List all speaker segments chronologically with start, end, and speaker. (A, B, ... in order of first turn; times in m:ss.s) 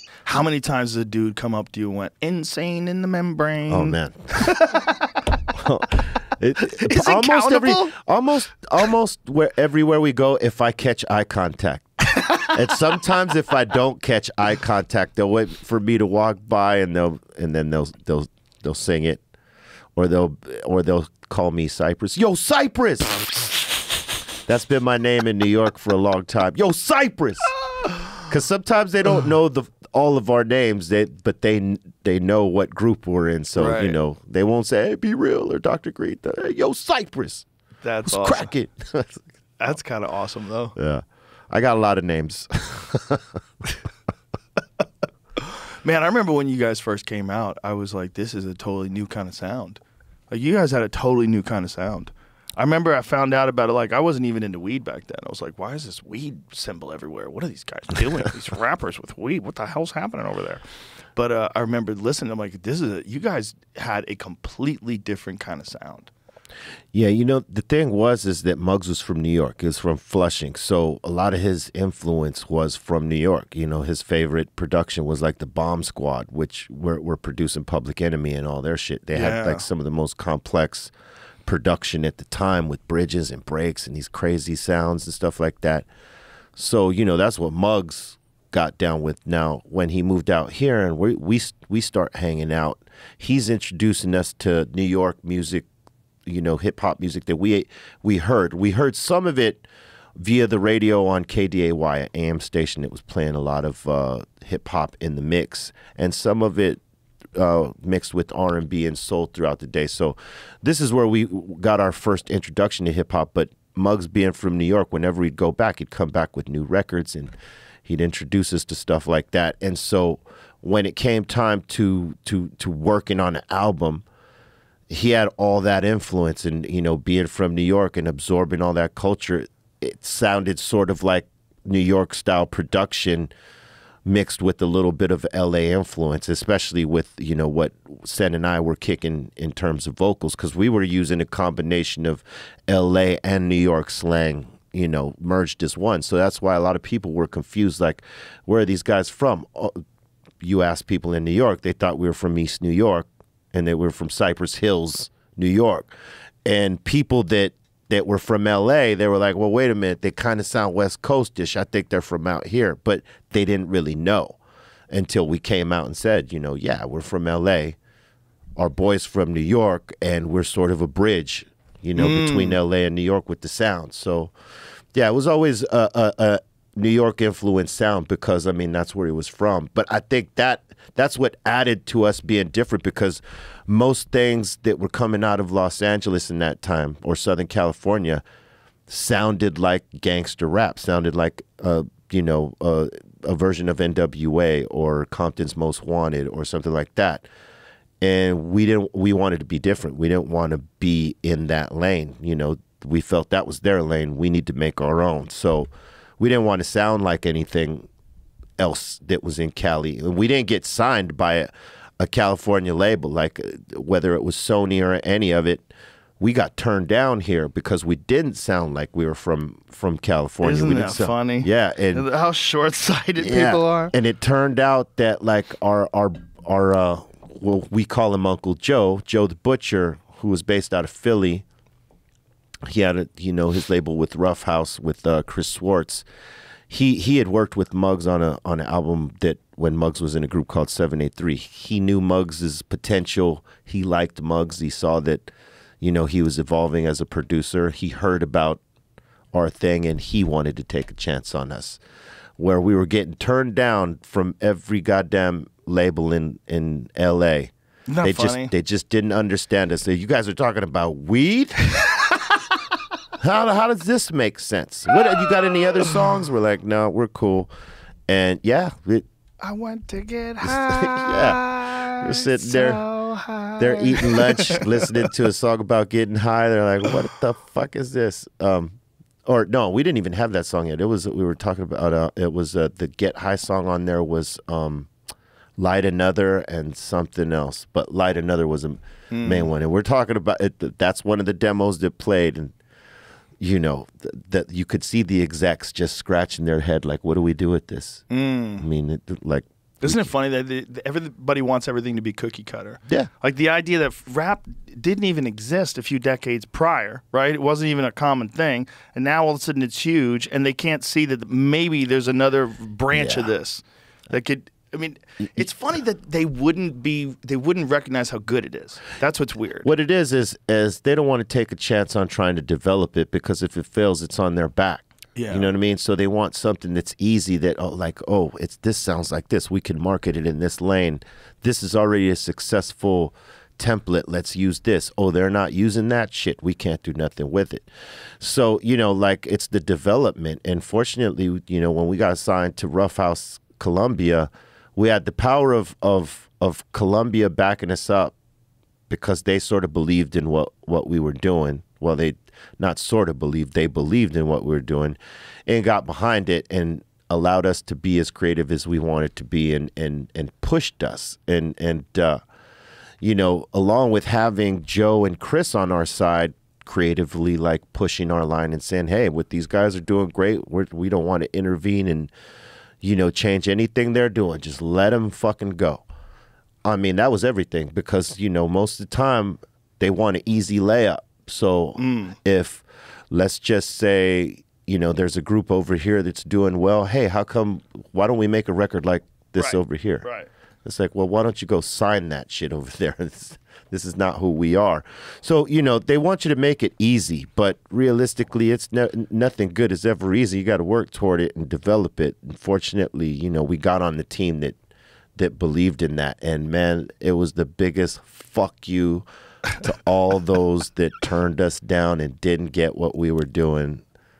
0:00.2-0:05.1 A
0:03.7-0:04.5 B
0:05.5-0:19.2 B
0:06.7-0:07.9 A
0:20.0-0:23.4 B
0:24.5-0:27.5 B
0:28.2-0:37.4 B
0:33.6-0:34.0 A
0:37.8-0:38.5 A
0:38.0-0:39.2 B
0:39.6-0:40.8 A
0:40.8-0:43.2 B
0:45.4-1:00.6 A
1:01.2-1:06.1 A
1:06.9-1:20.9 B
1:19.1-1:19.7 A
1:21.4-1:25.9 B
1:26.6-1:35.7 B
1:36.2-1:39.6 B
1:40.2-1:46.8 B
1:47.4-1:57.3 B
1:57.8-2:04.0 B
2:04.9-2:13.3 B
2:14.0-2:29.8 B
2:30.4-2:35.9 B
2:36.4-2:44.4 B
2:44.9-2:47.8 B
2:48.6-2:54.3 B
2:51.9-2:52.6 A
2:54.9-3:08.2 B
3:08.9-3:17.3 B
3:18.0-3:27.9 B
3:28.6-3:35.7 B
3:36.2-3:42.0 B
3:40.4-3:43.9 A
3:43.2-3:51.4 B
3:52.7-3:56.0 B
3:56.7-4:08.6 B
4:09.3-4:11.8 B
4:12.4-4:21.7 B
4:17.9-4:18.5 A
4:23.2-4:27.5 B
4:28.1-4:29.0 B
4:29.4-4:34.9 A
4:30.4-4:31.4 B
4:32.0-4:32.8 B
4:33.6-4:44.9 B
4:45.6-4:52.5 B
4:49.1-4:49.5 A
4:53.4-4:58.0 B
4:58.1-4:58.6 A
4:58.6-5:00.1 B
4:59.8-5:19.7 A
5:12.9-5:13.3 B
5:19.6-5:37.7 B
5:25.1-5:25.5 A
5:38.2-5:48.1 B
5:48.9-6:02.2 B
6:03.0-6:12.1 B
6:12.8-6:15.9 B
6:16.6-6:30.0 B
6:21.8-6:22.2 A
6:29.3-6:30.3 A
6:30.6-6:44.6 B
6:45.2-6:49.0 B
6:49.6-6:53.8 B